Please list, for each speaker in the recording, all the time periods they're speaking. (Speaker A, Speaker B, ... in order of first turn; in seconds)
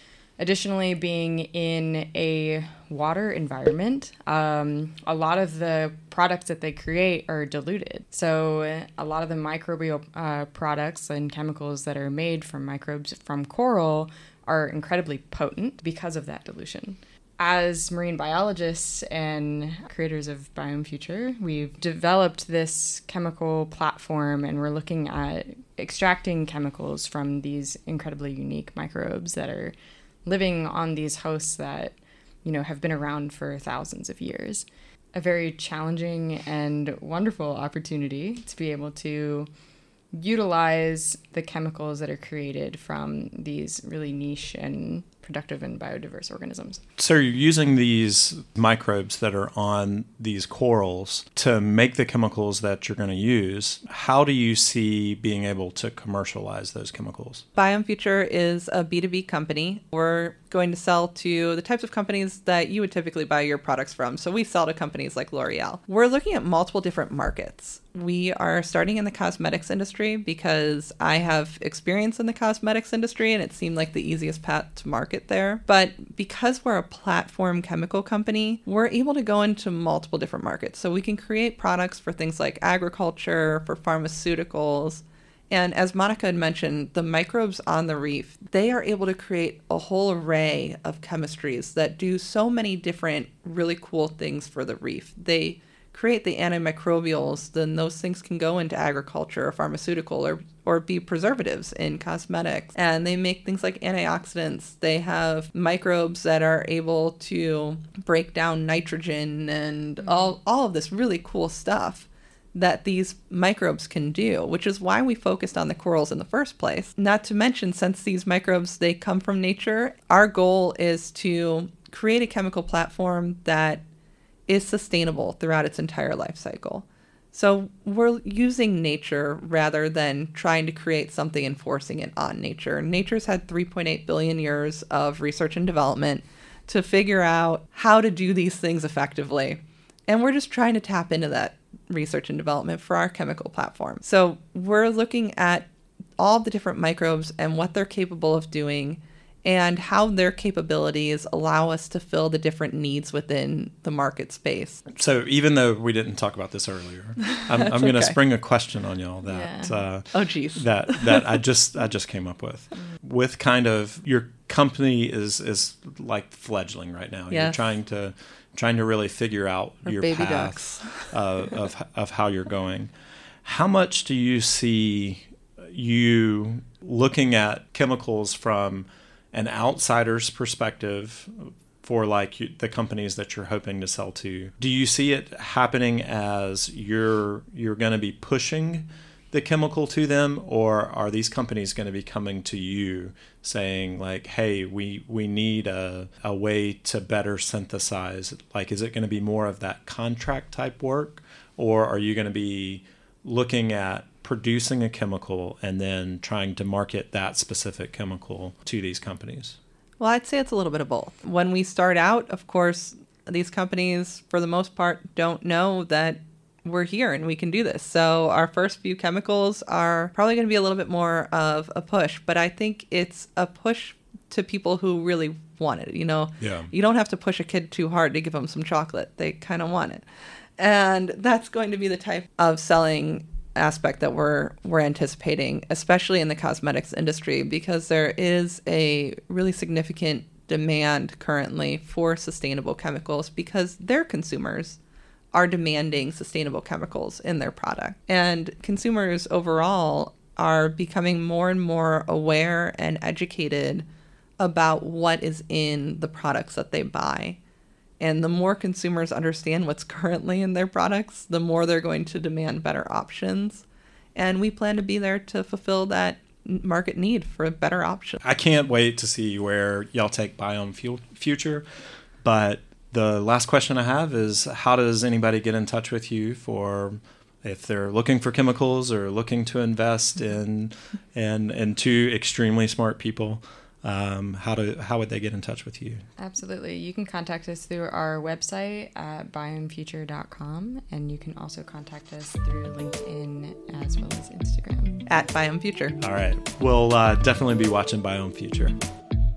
Speaker A: 0.4-29.7, 30.2-39.5, 40.1-46.8, 110.0-110.3, 159.2-159.8, 286.2-295.0
Speaker B: 47.0-57.4, 154.9-172.9, 173.4-209.6, 226.4-226.7, 268.2-271.6, 272.2-286.0, 296.0-298.8
Speaker C: 57.5-123.8, 124.5-145.7, 146.2-154.8, 157.2-158.2, 160.1-161.4, 167.3-167.6, 169.8-171.2, 210.0-230.0, 230.6-244.8, 245.3-253.8, 254.4-257.4, 258.0-268.2, 295.1-295.9